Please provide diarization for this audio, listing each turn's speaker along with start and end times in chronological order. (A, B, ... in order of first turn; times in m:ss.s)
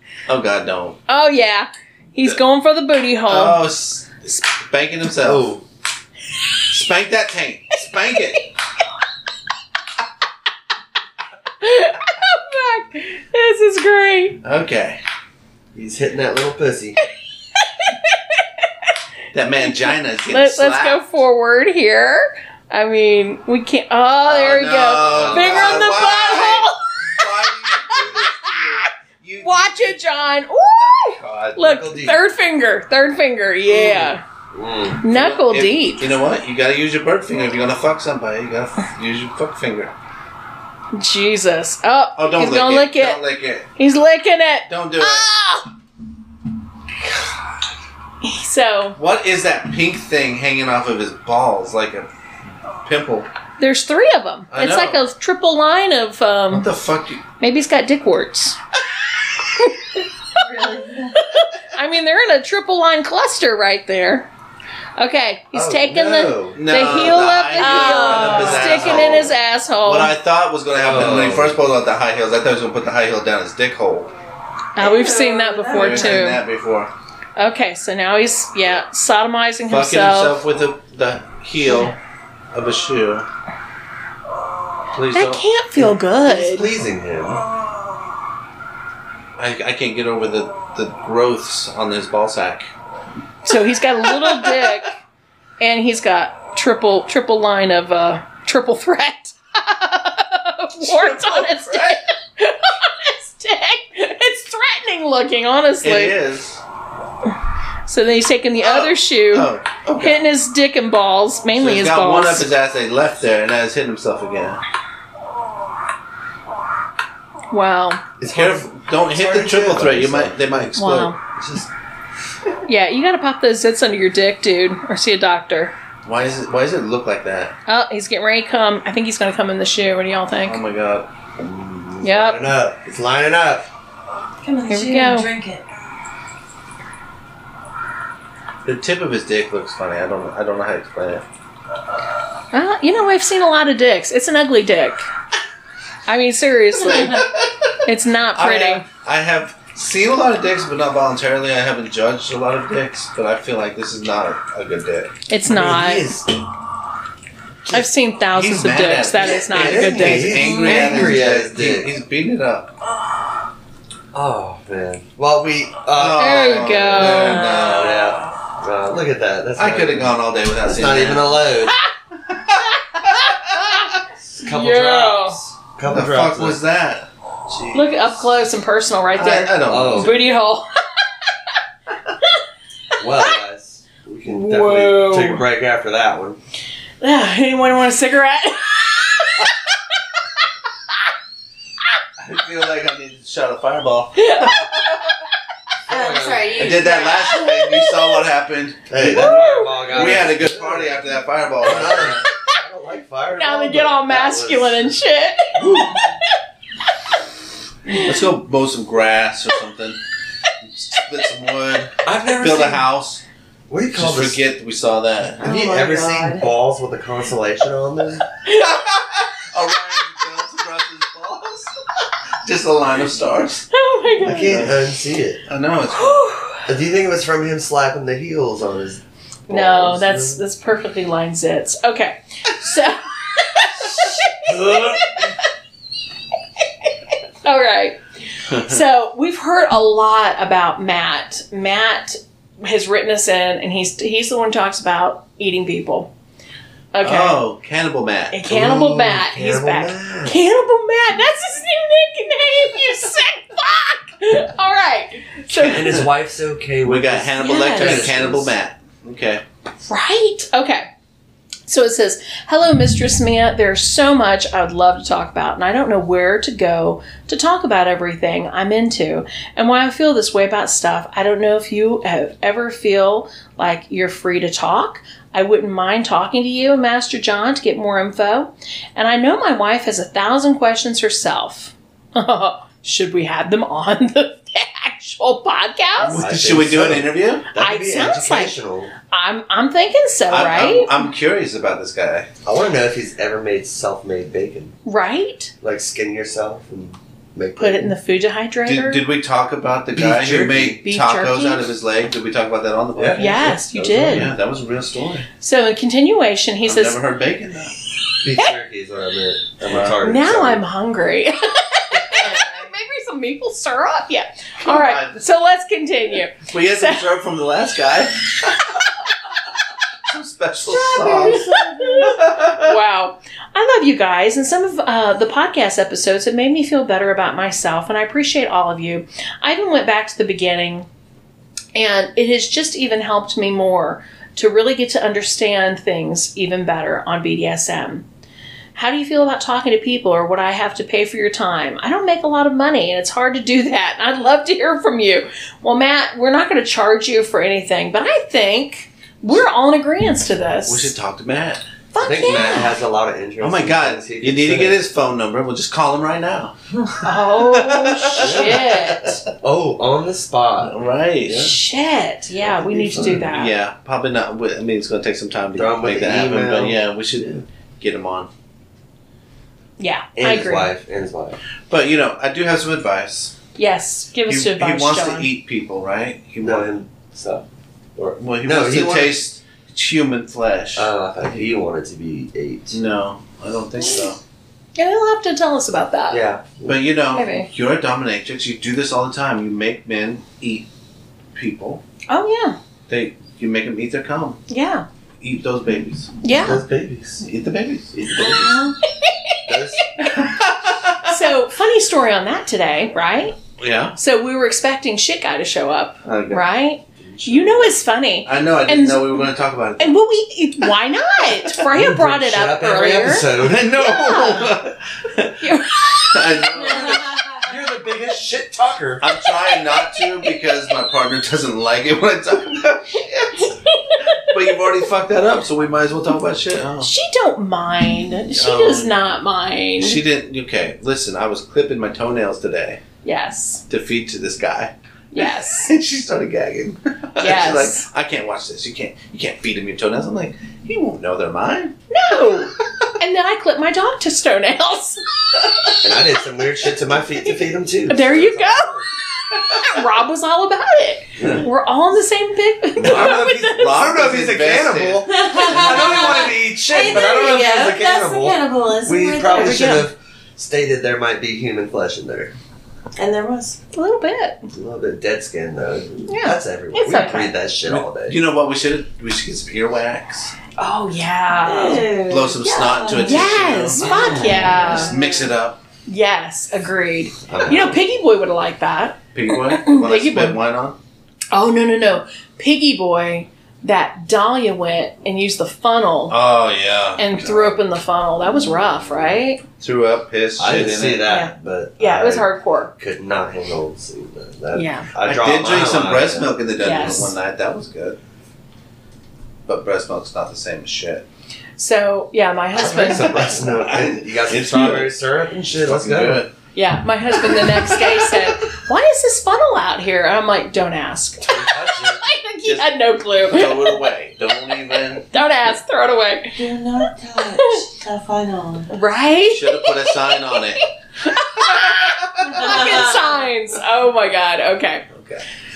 0:00.3-0:01.0 A
0:01.1-0:03.6 B
0:03.3-0:05.5 A
0:05.2-0:05.6 C
0:06.7-0:08.5 A
0:11.6-0:14.4 B
0:14.4-0:15.0 A
0:15.7-0:17.0 C
0:17.6-0:18.4 B
0:19.3-0:21.0 A
0:19.8-0:26.8 B
0:24.2-0:30.0 A
0:25.0-0:26.0 C
0:27.7-0:28.9 B
0:29.4-0:34.2 B
0:30.9-0:31.6 A
0:31.6-0:32.2 C
0:33.7-0:35.0 C
0:35.0-0:36.1 B
0:35.1-0:39.9 A
0:40.9-0:43.2 B
0:42.2-0:43.7 A
0:43.8-0:45.7 B
0:44.7-0:45.3 A
0:48.2-0:49.0 B
0:49.0-0:52.1 A
0:52.8-0:53.3 A
0:53.6-0:56.7 B
0:54.5-0:55.0 A
0:56.5-0:57.2 A
0:57.4-0:58.6 B
0:59.6-0:59.8 B
1:00.4-1:01.1 D
1:01.2-1:04.3 B
1:05.0-1:10.1 B
1:05.5-1:06.6 C
1:06.5-1:14.1 A
1:07.6-1:08.6 D
1:08.1-1:09.3 C
1:10.7-1:11.6 C
1:14.8-1:16.4 B
1:14.8-1:16.2 D
1:15.7-1:16.9 A
1:17.4-1:20.4 B
1:19.7-1:22.0 A
1:21.7-1:21.9 B
1:22.5-1:23.3 A
1:24.9-1:25.4 A
1:25.1-1:26.7 B
1:25.8-1:27.4 C
1:29.4-1:32.7 A
1:33.4-1:34.9 B
1:34.2-1:34.8 A
1:35.6-1:46.2 B
1:40.8-1:42.0 A
1:45.8-1:46.6 A
1:47.9-1:52.5 B
1:48.6-1:50.2 A
1:51.5-1:54.6 A
1:57.5-1:58.0 B
1:58.2-2:00.7 C
1:58.2-2:01.1 A
2:00.8-2:01.2 B
2:01.3-2:01.7 C
2:02.6-2:05.7 B
2:06.0-2:07.5 A
2:07.7-2:10.6 B
2:10.4-2:11.1 A
2:11.4-2:13.7 C
2:12.0-2:12.4 B
2:14.4-2:15.6 D
2:14.7-2:15.3 B
2:18.6-2:21.2 A
2:22.5-2:25.0 B
2:26.0-2:27.3 B
2:26.8-2:27.7 A
2:27.8-2:28.8 B
2:28.3-2:35.1 A
2:35.3-2:36.2 B
2:35.4-2:36.3 C
2:37.7-2:41.2 B
2:38.3-2:42.7 A
2:39.4-2:41.9 C
2:44.1-2:51.8 C
2:45.9-2:48.2 A
2:46.2-2:47.9 B
2:49.6-2:51.5 A
2:52.3-2:53.3 A
2:54.3-2:56.6 C
2:54.4-2:55.4 B
2:55.9-2:58.1 A
2:57.7-3:00.7 B
2:59.1-3:00.2 A
2:59.6-3:00.2 C
3:03.0-3:06.4 C
3:04.2-3:05.4 B
3:07.0-3:09.5 B
3:12.2-3:15.1 A
3:14.2-3:14.6 B
3:15.9-3:16.6 C
3:15.9-3:17.6 D
3:16.5-3:22.2 A
3:18.9-3:24.9 C
3:19.0-3:20.0 B
3:23.3-3:25.9 B
3:25.6-3:26.2 C
3:27.9-3:28.1 B
3:27.9-3:30.0 A
3:30.6-3:33.2 A
3:32.0-3:32.8 C
3:33.7-3:34.4 C
3:33.9-3:35.4 A
3:35.4-3:36.5 D
3:35.4-3:38.2 C
3:38.4-3:41.8 A
3:42.4-3:43.6 A
3:43.7-3:44.7 B
3:44.2-3:45.4 C
3:44.4-3:44.8 A
3:45.5-3:46.2 A
3:45.9-3:46.6 B
3:46.6-3:50.4 C
3:49.5-3:55.4 B
3:54.4-3:55.3 C
3:57.4-4:06.1 B
3:58.5-3:58.8 A
4:06.9-4:07.4 B
4:07.0-4:08.4 A
4:08.3-4:16.0 B
4:08.4-4:10.4 C
4:15.5-4:16.0 A
4:15.6-4:18.5 C
4:16.8-4:19.4 A
4:17.4-4:18.1 B
4:19.8-4:20.9 B
4:21.7-4:46.2 B
4:46.0-4:47.4 A
4:46.2-4:48.9 C
4:47.6-4:48.6 B
4:49.1-4:51.0 B
4:50.3-4:52.3 A
4:52.4-4:54.8 C
4:54.8-4:55.5 B
4:55.6-4:57.9 C
4:57.6-4:59.0 B
4:58.6-5:05.3 A
4:59.9-5:00.8 C
5:00.8-5:01.7 B
5:03.0-5:04.3 C
5:03.2-5:04.3 B
5:05.4-5:07.0 B
5:06.6-5:07.7 A
5:08.2-5:10.6 C
5:09.6-5:10.0 A
5:10.0-5:17.0 B
5:14.6-5:15.2 A
5:16.5-5:18.8 A
5:20.1-5:22.8 A
5:20.9-5:22.1 D
5:21.0-5:21.4 C
5:21.7-5:30.9 B
5:31.7-5:38.0 B
5:38.7-5:50.9 B
5:50.6-5:51.6 A
5:51.9-5:52.8 B
5:52.0-5:54.8 C
5:53.4-5:56.5 A
5:57.0-5:59.2 B
5:57.3-5:59.1 A
5:58.2-6:01.5 C
6:00.6-6:01.5 A
6:01.3-6:03.5 B
6:02.4-6:03.3 C
6:03.2-6:08.3 A
6:05.6-6:07.4 C
6:09.8-6:10.7 B
6:10.2-6:11.4 C
6:11.7-6:13.3 A
6:13.6-6:15.3 B
6:14.3-6:16.7 A
6:16.4-6:17.4 C
6:18.0-6:19.2 C
6:18.2-6:21.5 A
6:20.8-6:22.8 C
6:22.7-6:24.2 A
6:24.8-6:26.2 B
6:26.1-6:26.8 C
6:26.6-6:30.7 A
6:27.1-6:27.5 B
6:31.3-6:31.8 A
6:32.1-6:32.6 B
6:32.9-6:34.4 A
6:34.5-6:34.8 B
6:35.2-6:36.2 A
6:36.2-6:36.6 B
6:36.3-6:37.2 C
6:37.2-6:38.6 A
6:38.2-6:38.4 C
6:38.2-6:38.7 D
6:39.0-6:39.4 B
6:39.5-6:40.0 C
6:40.0-6:41.2 A
6:41.0-6:43.4 B
6:43.6-6:44.0 A
6:43.9-6:49.2 B
6:46.0-6:46.4 A
6:47.0-6:47.7 C
6:48.2-6:50.0 A
6:49.8-6:54.5 B
6:51.7-6:54.5 C
6:53.4-6:55.4 A
6:55.4-6:56.4 B
6:56.0-6:57.1 A
6:56.7-6:57.4 D
6:57.4-6:59.0 C
6:59.0-7:06.9 A
6:59.8-7:00.0 B
7:03.4-7:04.4 B
7:06.8-7:10.0 B
7:08.4-7:08.9 A
7:09.8-7:12.8 A
7:13.0-7:13.6 B
7:13.7-7:21.7 A
7:15.1-7:15.7 B
7:17.2-7:17.9 B
7:21.9-7:25.0 B
7:25.8-7:28.9 C
7:27.9-7:28.7 B
7:29.3-7:33.7 B
7:31.2-7:31.4 C
7:32.8-7:42.3 C
7:32.8-7:36.3 A
7:35.1-7:39.8 D
7:39.3-7:39.9 B
7:43.0-7:43.6 D
7:43.7-7:44.5 B
7:44.5-7:48.2 C
7:46.1-7:47.3 B
7:47.7-7:50.3 A
7:50.6-7:51.9 B
7:51.4-7:55.3 D
7:52.1-7:55.6 A
7:53.0-7:54.9 B
7:53.9-7:54.9 C
7:55.8-8:00.4 B
7:57.2-7:57.8 C
7:59.1-8:00.8 A
8:01.3-8:06.2 B
8:06.1-8:07.5 A
8:07.0-8:09.4 B
8:08.3-8:09.1 C
8:09.6-8:11.1 A
8:10.4-8:16.4 C
8:11.1-8:12.7 B
8:14.5-8:14.9 B
8:15.0-8:18.0 A
8:16.6-8:17.2 B
8:19.4-8:21.0 A
8:21.6-8:23.4 B
8:22.5-8:26.2 C
8:23.4-8:24.9 A
8:25.6-8:26.3 A
8:26.5-8:33.8 B
8:31.2-8:32.0 C
8:31.5-8:31.9 A
8:32.4-8:35.1 A
8:34.7-8:36.4 B
8:36.3-8:38.7 D
8:37.3-8:37.6 B
8:38.7-8:44.8 B
8:39.3-8:40.6 A
8:41.4-8:42.6 A
8:42.2-8:43.2 D